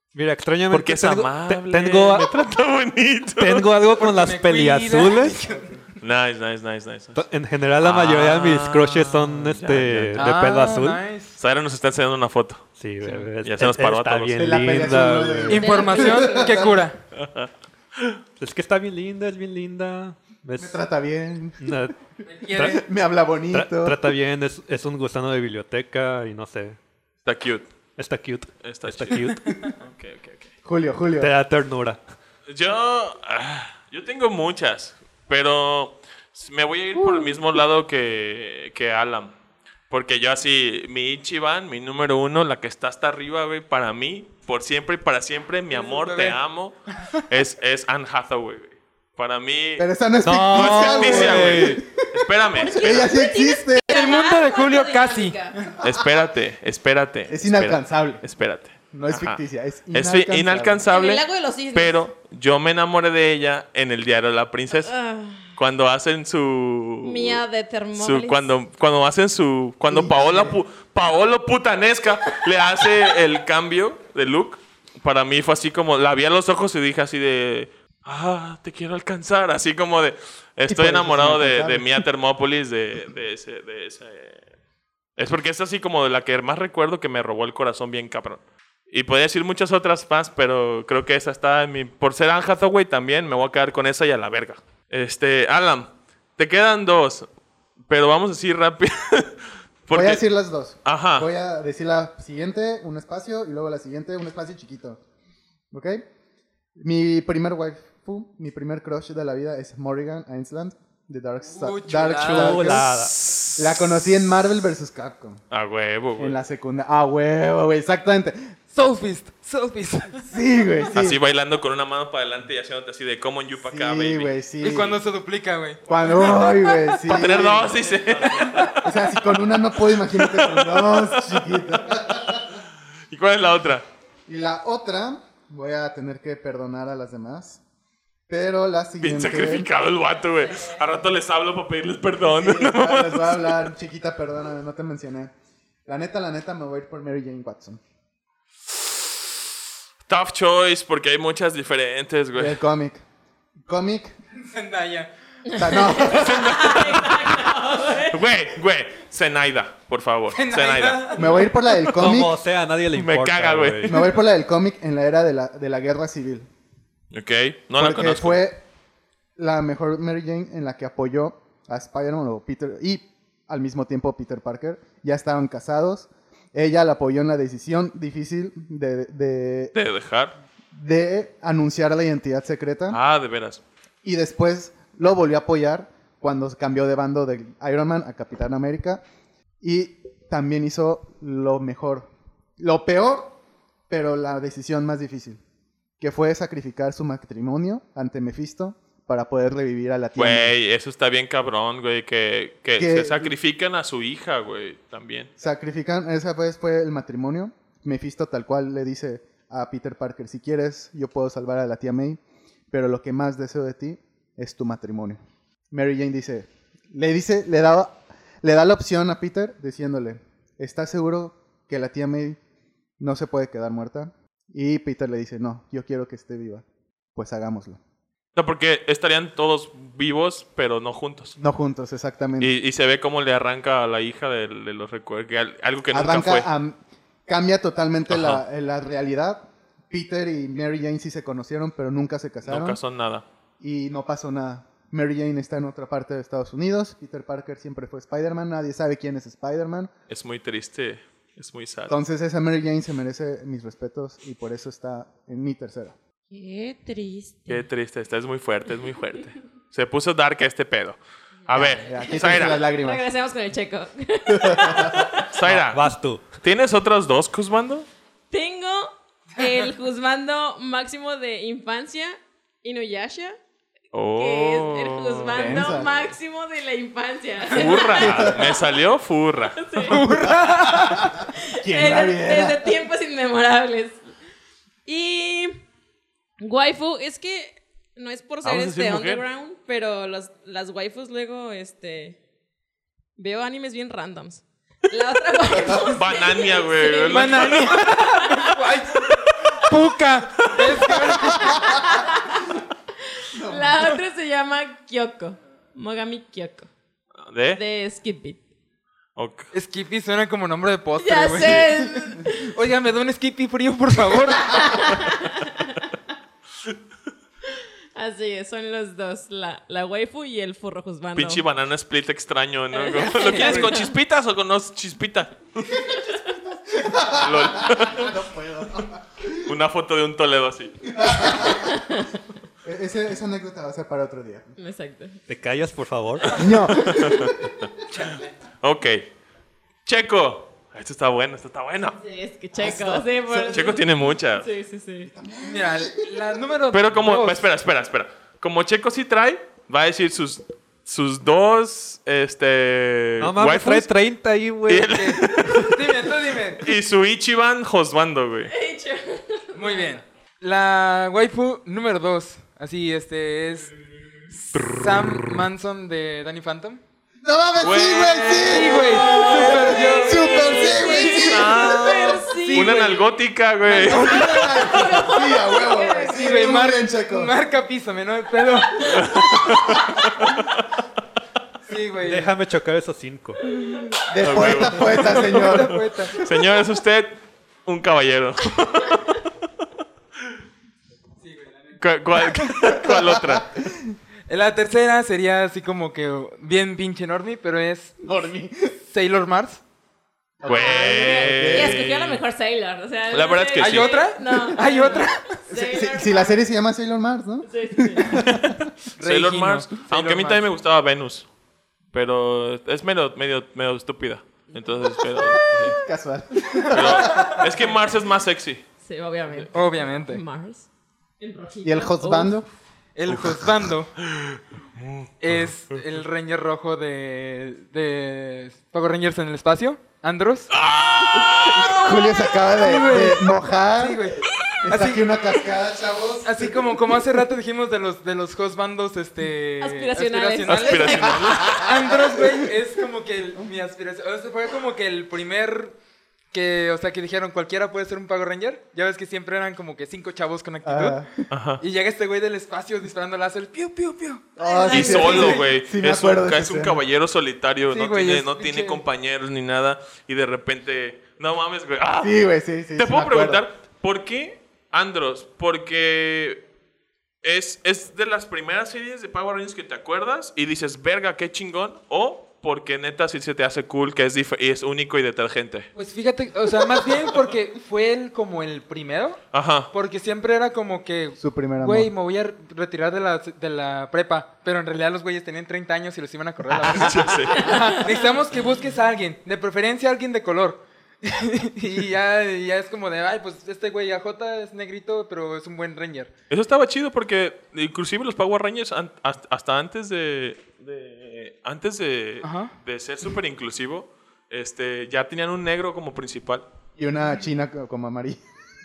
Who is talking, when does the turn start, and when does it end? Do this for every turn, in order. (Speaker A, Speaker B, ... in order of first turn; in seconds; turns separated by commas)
Speaker A: 0.1-2.5, Speaker B: 0.7-3.7, Speaker A: 3.4-5.4, Speaker C: 4.0-5.8, Speaker D: 5.5-5.8, Speaker B: 6.0-7.2, Speaker A: 7.2-11.0, Speaker B: 7.8-10.3, Speaker C: 10.2-11.4, Speaker B: 11.4-12.7, Speaker A: 12.8-15.7, Speaker B: 13.4-14.5, Speaker D: 14.4-16.7, Speaker C: 15.5-17.0, Speaker E: 15.5-16.8, Speaker B: 17.2-18.2, Speaker A: 18.4-20.8, Speaker D: 20.6-21.8, Speaker A: 21.6-21.9, Speaker C: 22.3-22.8, Speaker A: 22.5-22.8, Speaker D: 22.7-24.0, Speaker A: 23.5-26.8, Speaker B: 27.2-27.7, Speaker A: 28.0-29.7, Speaker B: 28.6-30.5, Speaker D: 30.6-31.3, Speaker A: 31.2-32.0, Speaker B: 32.5-39.3, Speaker B: 39.9-49.9, Speaker C: 45.7-46.4, Speaker D: 49.8-52.0, Speaker A: 50.2-51.8, Speaker B: 50.5-53.1, Speaker E: 52.6-55.5, Speaker D: 52.6-53.9, Speaker C: 53.9-55.7, Speaker B: 55.8-59.4, Speaker D: 57.3-58.2, Speaker D: 58.9-60.9, Speaker B: 59.9-64.9, Speaker E: 60.9-62.0, Speaker E: 64.8-65.5, Speaker B: 65.5-67.4, Speaker E: 67.0-68.4, Speaker B: 68.0-84.4, Speaker D: 69.9-70.6, Speaker D: 80.7-82.0, Speaker B: 85.2-97.3, Speaker B: 97.9-99.3, Speaker B: 99.9-100.2, Speaker D: 99.9-105.0, Speaker B: 100.8-101.3, Speaker D: 105.7-106.0, Speaker D: 106.8-115.4, Speaker C: 111.5-112.8, Speaker A: 112.2-113.2, Speaker B: 113.2-113.6, Speaker B: 115.5-116.4, Speaker D: 116.2-118.5, Speaker C: 118.7-120.3, Speaker D: 120.2-121.2, Speaker B: 120.9-124.3, Speaker D: 123.7-125.0, Speaker C: 124.6-125.8, Speaker D: 125.9-127.7, Speaker B: 127.0-128.8, Speaker D: 128.8-132.6, Speaker B: 130.0-131.4, Speaker B: 133.1-133.8, Speaker D: 134.3-137.6, Speaker D: 138.3-139.7, Speaker B: 139.0-143.6, Speaker D: 142.3-145.3, Speaker D: 145.9-147.8, Speaker B: 150.1-152.6, Speaker D: 152.3-153.0, Speaker D: 153.6-154.2, Speaker C: 154.4-155.1, Speaker E: 155.5-158.2, Speaker D: 155.6-156.7, Speaker B: 156.1-157.4, Speaker B: 158.1-161.4, Speaker C: 160.3-161.5, Speaker D: 161.2-162.4, Speaker A: 161.9-164.0, Speaker B: 162.9-164.0, Speaker D: 163.9-166.5, Speaker B: 167.1-168.4, Speaker D: 167.8-168.6, Speaker D: 169.4-179.7, Speaker B: 179.7-180.3, Speaker D: 180.7-183.0, Speaker B: 182.9-183.6, Speaker D: 184.0-189.0, Speaker D: 189.6-193.4, Speaker D: 193.9-195.4, Speaker D: 196.0-200.5, Speaker B: 200.2-205.3, Speaker D: 202.8-203.3, Speaker D: 205.4-215.2, Speaker D: 215.7-222.4, Speaker D: 223.0-226.7, Speaker D: 227.2-227.8, Speaker B: 228.4-231.3, Speaker D: 231.4-232.5, Speaker B: 232.4-236.5, Speaker D: 235.9-242.8, Speaker B: 238.1-238.4, Speaker B: 242.4-243.2, Speaker D: 243.6-249.9, Speaker B: 250.1-251.9, Speaker D: 251.9-256.0, Speaker E: 256.3-257.6, Speaker B: 257.5-262.6, Speaker D: 261.5-263.1, Speaker E: 261.6-265.2, Speaker D: 264.3-265.0, Speaker B: 265.2-265.9, Speaker A: 265.5-266.3, Speaker B: 266.4-267.9, Speaker E: 268.3-273.4, Speaker B: 273.9-275.8, Speaker E: 274.2-278.6, Speaker D: 275.3-276.0, Speaker B: 277.5-279.9, Speaker D: 278.0-278.3, Speaker E: 279.6-280.0, Speaker C: 279.8-281.1, Speaker D: 280.9-282.8, Speaker E: 281.3-284.0, Speaker E: 284.9-285.6, Speaker E: 286.4-292.2, Speaker B: 288.4-289.2, Speaker E: 293.2-298.5, Speaker B: 295.7-297.9, Speaker C: 297.1-301.6, Speaker E: 301.3-302.6, Speaker E: 303.2-306.7, Speaker D: 303.3-303.9, Speaker B: 307.2-307.6, Speaker E: 307.6-308.4, Speaker B: 309.2-309.5, Speaker C: 309.5-311.8, Speaker E: 311.0-312.5, Speaker C: 312.4-314.7, Speaker E: 314.4-315.9, Speaker E: 317.5-321.4, Speaker B: 321.1-325.7, Speaker E: 322.7-323.9, Speaker E: 325.7-326.4, Speaker D: 326.7-329.5, Speaker B: 327.2-328.1, Speaker B: 329.4-331.6, Speaker D: 330.9-331.8, Speaker E: 331.5-332.2, Speaker D: 332.6-334.5, Speaker E: 334.6-335.2, Speaker A: 335.3-336.5, Speaker D: 336.4-337.4, Speaker B: 336.7-337.3, Speaker E: 336.8-337.3, Speaker C: 337.9-338.3, Speaker B: 338.6-339.0, Speaker B: 339.9-342.0, Speaker E: 342.0-345.1, Speaker D: 342.6-343.7, Speaker B: 343.5-344.5, Speaker D: 345.0-346.2, Speaker C: 345.4-347.4, Speaker B: 346.7-353.9, Speaker A: 353.2-355.1, Speaker B: 354.7-355.7, Speaker C: 354.9-356.7, Speaker B: 356.6-358.5, Speaker E: 358.5-359.9, Speaker C: 359.5-363.7, Speaker C: 364.5-366.8, Speaker D: 367.2-371.5, Speaker B: 367.6-374.7, Speaker C: 368.4-370.5, Speaker E: 368.8-372.9, Speaker C: 372.1-373.1, Speaker E: 373.7-376.6, Speaker C: 373.7-374.2, Speaker D: 373.8-377.3, Speaker C: 376.1-379.0, Speaker E: 378.8-379.4, Speaker B: 378.9-380.6, Speaker C: 381.6-382.3, Speaker A: 382.0-383.4, Speaker E: 383.6-383.8, Speaker D: 384.1-385.8, Speaker B: 384.2-389.0, Speaker C: 384.9-386.2, Speaker C: 391.2-391.8, Speaker B: 391.8-393.6, Speaker D: 392.8-393.8, Speaker C: 394.3-398.0, Speaker D: 398.0-398.7, Speaker C: 398.9-399.6, Speaker D: 400.4-401.9, Speaker B: 400.5-402.2, Speaker E: 400.5-406.4, Speaker B: 403.1-403.9, Speaker C: 403.6-405.3, Speaker D: 405.5-408.5, Speaker E: 407.4-408.3, Speaker B: 408.2-411.3, Speaker C: 409.0-410.4, Speaker B: 411.9-415.8, Speaker D: 415.7-417.5, Speaker B: 416.7-418.6, Speaker E: 418.8-420.7, Speaker C: 419.5-420.2, Speaker E: 421.2-422.3, Speaker D: 421.6-422.5, Speaker C: 423.0-423.9, Speaker B: 423.1-423.5, Speaker B: 424.0-425.5, Speaker C: 425.2-430.5, Speaker B: 430.5-431.9, Speaker E: 431.2-432.4, Speaker D: 431.5-434.0, Speaker C: 432.6-435.1, Speaker D: 434.6-436.8, Speaker C: 436.2-445.8, Speaker E: 439.6-441.7, Speaker B: 440.5-441.7, Speaker D: 441.4-442.3, Speaker C: 446.3-451.0, Speaker D: 450.6-451.2, Speaker B: 451.3-451.6, Speaker C: 451.6-455.4, Speaker D: 454.4-456.8, Speaker E: 454.4-455.4, Speaker B: 454.7-462.2, Speaker C: 457.7-458.8, Speaker D: 462.0-463.4, Speaker B: 462.8-466.4, Speaker B: 467.2-475.7, Speaker C: 475.8-496.1, Speaker B: 479.3-479.7, Speaker D: 481.2-481.9, Speaker B: 486.6-487.6, Speaker E: 487.3-487.8, Speaker B: 496.3-506.4, Speaker C: 502.2-502.5, Speaker D: 506.8-508.2